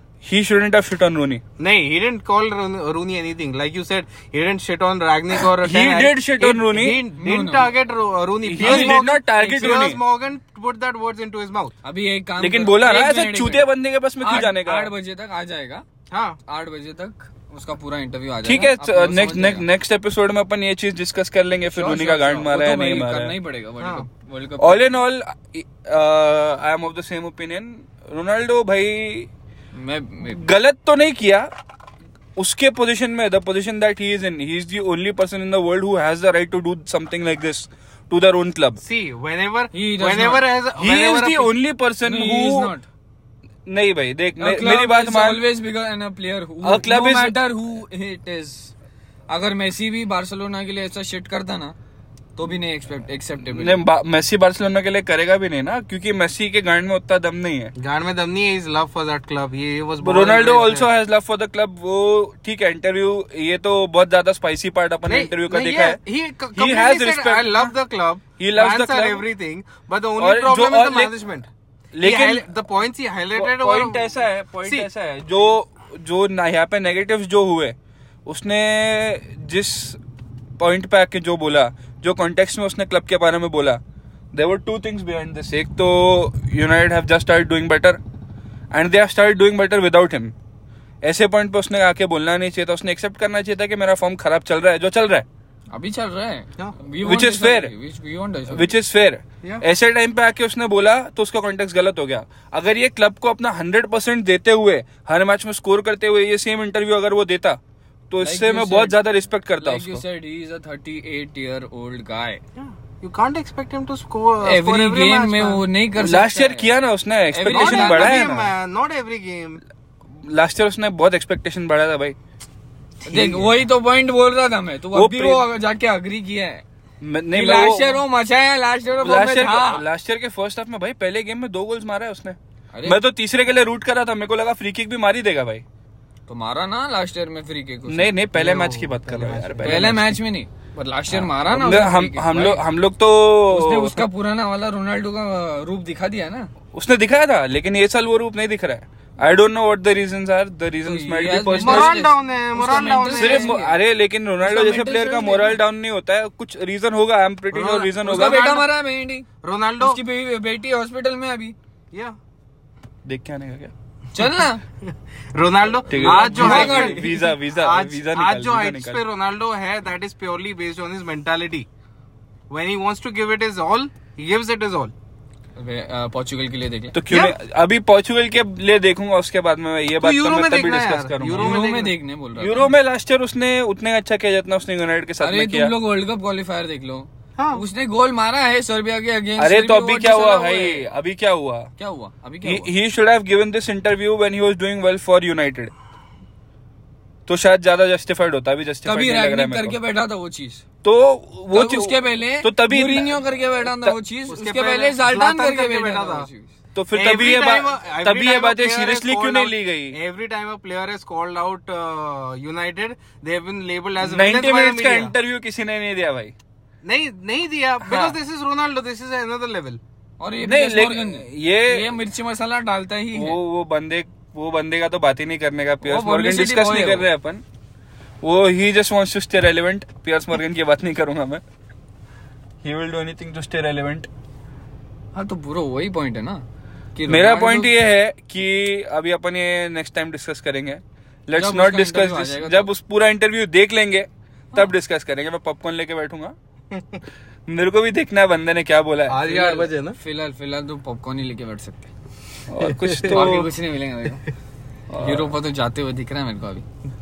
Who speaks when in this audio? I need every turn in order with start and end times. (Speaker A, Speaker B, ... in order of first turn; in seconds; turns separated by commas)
Speaker A: 0.2-1.4, Speaker B: 1.6-11.7, Speaker A: 5.5-7.0, Speaker C: 7.2-7.7, Speaker A: 8.4-10.0, Speaker C: 8.6-9.5, Speaker C: 11.8-13.7, Speaker A: 12.4-14.9, Speaker C: 14.2-15.8, Speaker B: 16.1-16.4, Speaker C: 16.4-19.6, Speaker A: 18.4-23.4, Speaker C: 21.7-24.9, Speaker B: 23.8-24.1, Speaker A: 24.6-29.3, Speaker C: 29.7-30.5, Speaker A: 30.3-31.5, Speaker A: 32.4-38.8, Speaker B: 38.8-41.5, Speaker C: 39.7-40.5, Speaker A: 40.8-42.7, Speaker C: 42.0-42.8, Speaker A: 43.7-45.4, Speaker C: 44.4-48.7, Speaker A: 46.6-47.4, Speaker C: 49.3-51.7, Speaker C: 52.4-53.8, Speaker A: 53.5-57.7, Speaker B: 57.8-60.9, Speaker A: 60.0-66.0, Speaker B: 65.0-71.5, Speaker A: 66.5-67.7, Speaker A: 68.4-69.2, Speaker A: 70.2-71.2, Speaker A: 71.9-72.4, Speaker B: 72.0-74.9, Speaker A: 73.3-77.7, Speaker A: 78.2-80.0, Speaker A: 80.6-83.8, Speaker A: 84.3-88.0, Speaker A: 88.7-90.3, Speaker A: 91.0-95.2, Speaker C: 95.7-98.7, Speaker A: 97.0-97.7, Speaker A: 98.5-107.6, Speaker A: 108.1-110.0, Speaker C: 108.2-109.0, Speaker C: 109.6-112.4, Speaker B: 112.5-115.7, Speaker C: 114.4-116.7, Speaker A: 116.0-118.5, Speaker C: 117.3-118.2, Speaker B: 117.5-119.6, Speaker A: 120.1-122.2, Speaker B: 123.0-123.5, Speaker C: 123.0-126.6, Speaker A: 124.9-125.5, Speaker A: 127.0-128.0, Speaker C: 127.3-129.8, Speaker A: 129.0-135.6, Speaker C: 132.7-133.0, Speaker C: 136.3-138.1, Speaker A: 137.9-140.2, Speaker B: 138.3-140.0, Speaker C: 139.6-142.6, Speaker A: 141.1-144.0, Speaker C: 143.5-146.5, Speaker A: 146.7-152.0, Speaker C: 150.8-153.8, Speaker B: 151.6-153.6, Speaker A: 153.1-158.6, Speaker C: 154.4-155.6, Speaker B: 157.5-158.7, Speaker C: 158.0-159.3, Speaker B: 159.4-160.0, Speaker C: 159.8-161.5, Speaker A: 163.0-163.7, Speaker C: 164.1-164.6, Speaker B: 164.8-171.7, Speaker A: 165.9-169.0, Speaker C: 165.9-167.2, Speaker B: 172.5-174.9, Speaker C: 175.6-177.0, Speaker A: 176.9-181.6, Speaker B: 177.1-177.3, Speaker B: 180.0-181.9, Speaker C: 181.3-182.7, Speaker A: 182.4-185.7, Speaker C: 185.2-190.8, Speaker B: 187.3-187.6, Speaker A: 189.4-191.7, Speaker C: 191.8-192.7, Speaker A: 192.4-195.7, Speaker A: 197.3-199.8, Speaker C: 198.8-200.6, Speaker A: 200.8-204.0, Speaker C: 201.5-206.5, Speaker B: 204.3-206.3, Speaker A: 206.7-210.0, Speaker B: 206.9-215.1, Speaker A: 214.0-216.3, Speaker B: 216.8-219.8, Speaker C: 220.2-223.4, Speaker A: 220.4-221.9, Speaker A: 223.1-227.4, Speaker C: 225.8-227.1, Speaker A: 228.2-231.4, Speaker A: 232.6-234.1, Speaker C: 235.1-236.4, Speaker C: 236.9-237.7, Speaker A: 237.1-246.3, Speaker C: 241.3-242.7, Speaker B: 246.7-247.0, Speaker A: 247.5-249.2, Speaker B: 249.1-250.0, Speaker C: 249.2-251.9, Speaker A: 252.5-253.5, Speaker B: 252.7-253.1, Speaker C: 253.0-254.3, Speaker A: 254.9-255.3, Speaker C: 254.9-256.6